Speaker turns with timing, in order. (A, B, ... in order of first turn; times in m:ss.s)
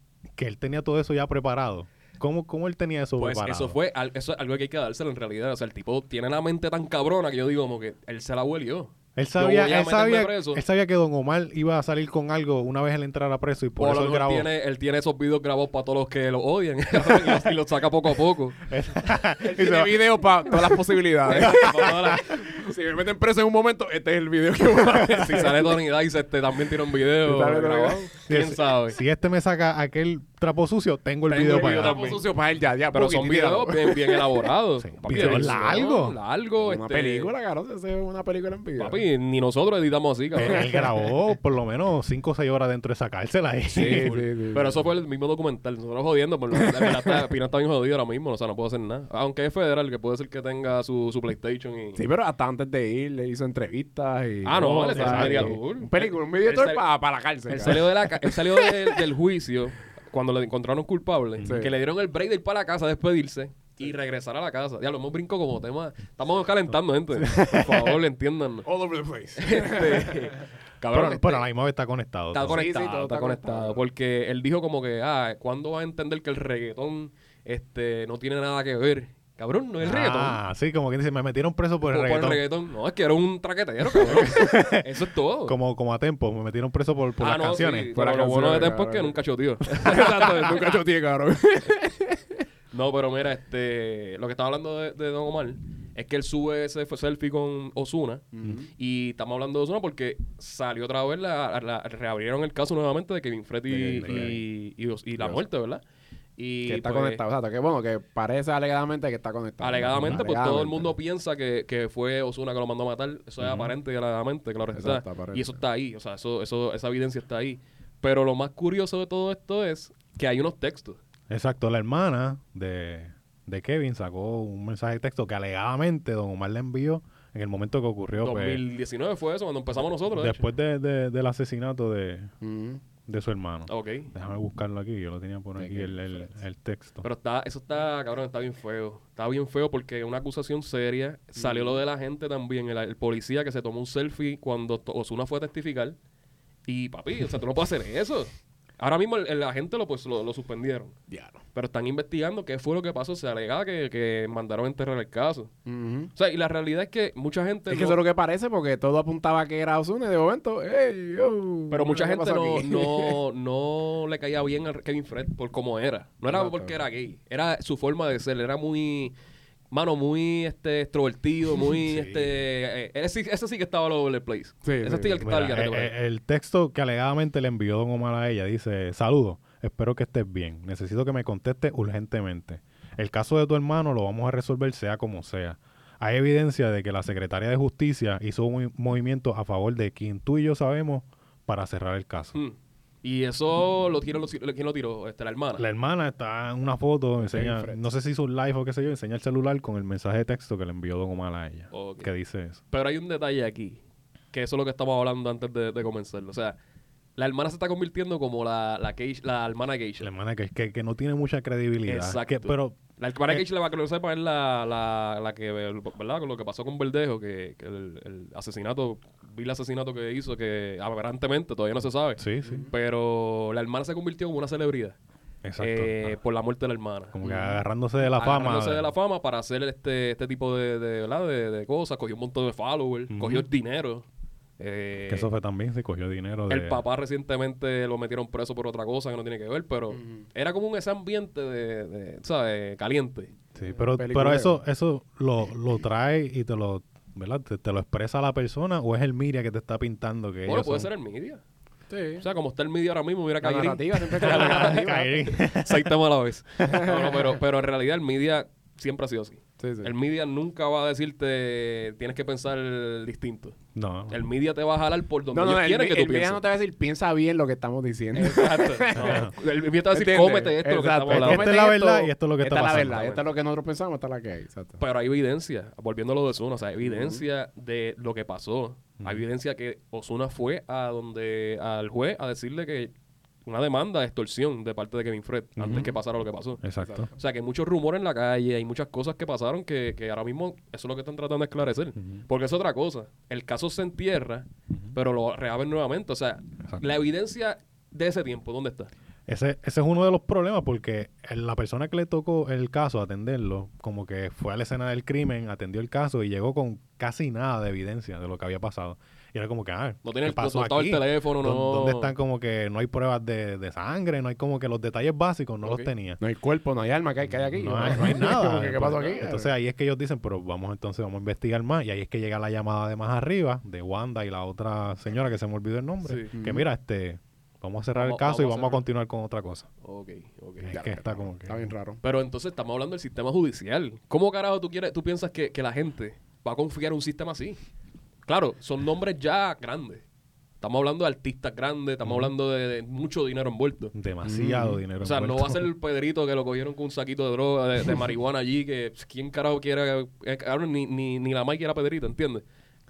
0:00.4-0:03.8 A
0:03.2-0:10.6 B
0:09.2-0:14.5 A
0:13.8-0:18.6 B
0:18.7-0:20.8 A
0:19.4-0:25.8 C
0:21.3-0:22.5 B
0:21.4-0:22.2 A
0:25.1-0:29.0 B
0:27.2-0:28.1 C
0:28.3-0:32.2 A
0:31.3-0:32.2 B
0:31.6-0:34.5 C
0:32.9-0:37.3 B
0:34.8-0:36.2 A
0:35.1-0:35.8 C
0:36.6-0:39.0 C
0:38.8-0:40.7 B
0:40.4-0:40.9 C
0:40.4-0:44.2 A
0:43.7-0:44.8 C
0:43.8-0:52.0 B
0:46.6-0:47.0 C
0:52.0-0:59.0 C
0:54.4-0:56.8 B
0:54.6-0:55.6 A
0:57.5-1:08.7 B
1:01.4-1:01.7 A
1:01.4-1:01.7 C
1:07.2-1:07.9 A
1:08.7-1:10.4 C
1:09.4-1:11.4 B
1:10.9-1:12.6 A
1:12.3-1:20.4 B
1:12.5-1:13.8 C
1:19.8-1:22.4 A
1:21.9-1:25.6 B
1:24.0-1:24.9 A
1:25.5-1:27.9 A
1:27.2-1:30.7 B
1:27.9-1:32.4 C
1:32.7-1:38.2 B
1:38.3-1:38.7 C
1:38.8-1:45.8 B
1:43.7-1:44.4 A
1:46.4-1:47.2 B
1:46.7-1:51.0 C
1:49.6-2:01.0 B
1:49.9-1:50.3 A
1:53.4-1:53.8 A
1:54.7-1:55.6 C
2:01.3-2:08.6 A
2:08.2-2:10.4 B
2:10.1-2:12.3 A
2:12.4-2:12.8 C
2:13.1-2:17.0 A
2:13.7-2:14.1 B
2:15.6-2:16.3 C
2:17.0-2:26.0 B
2:21.4-2:21.8 C
2:26.7-2:31.0 B
2:31.1-2:31.4 C
2:31.5-2:35.5 B
2:35.7-2:36.1 C
2:36.2-2:38.0 B
2:37.7-2:43.2 C
2:41.7-2:49.1 B
2:46.3-2:46.8 C
2:49.7-2:55.9 B
2:51.8-2:52.4 A
2:54.6-2:55.2 C
2:55.2-3:12.4 A
3:12.3-3:15.6 B
3:15.6-3:22.6 A
3:17.2-3:17.8 C
3:21.7-3:22.1 B
3:22.7-3:23.8 B
3:24.3-3:26.6 B
3:27.2-3:30.1 B
3:30.0-3:33.4 A
3:31.9-3:45.0 B
3:42.2-3:42.7 A
3:42.4-3:42.7 C
3:45.4-3:46.2 A
3:45.6-3:47.2 B
3:47.1-3:48.9 A
3:47.2-3:47.6 C
3:48.0-3:54.1 B
3:53.1-3:53.5 A
3:54.6-3:55.3 B
3:55.1-3:56.8 A
3:56.5-4:03.3 B
4:00.0-4:00.2 C
4:03.6-4:10.9 A
4:03.8-4:04.6 C
4:10.5-4:11.4 B
4:11.9-4:12.3 C
4:12.2-4:23.6 B
4:13.4-4:15.3 C
4:14.2-4:15.9 A
4:16.6-4:17.4 C
4:19.6-4:19.9 C
4:23.8-4:24.2 A
4:24.1-4:26.4 B
4:25.3-4:29.3 C
4:28.2-4:31.6 B
4:29.0-4:29.3 A
4:29.9-4:34.8 C
4:31.1-4:33.1 A
4:32.7-4:33.2 B
4:34.8-4:42.9 B
4:36.8-4:37.2 C
4:43.5-4:58.9 B
4:45.6-4:45.9 A
4:46.6-4:47.1 A
4:46.8-4:47.1 C
4:59.3-5:16.2 A
5:10.0-5:12.1 B
5:15.6-5:15.9 B
5:16.2-5:19.5 C
5:17.5-5:29.7 A
5:26.0-5:26.3 B
5:26.3-5:26.7 C
5:28.0-5:28.8 B
5:29.8-5:30.8 B
5:30.6-5:31.7 A
5:30.7-5:32.0 C
5:32.0-5:37.6 B
5:38.3-5:40.0 B
5:40.6-5:43.9 B
5:42.0-5:42.3 A
5:43.9-5:45.7 A
5:44.2-5:44.8 C
5:45.0-5:52.4 B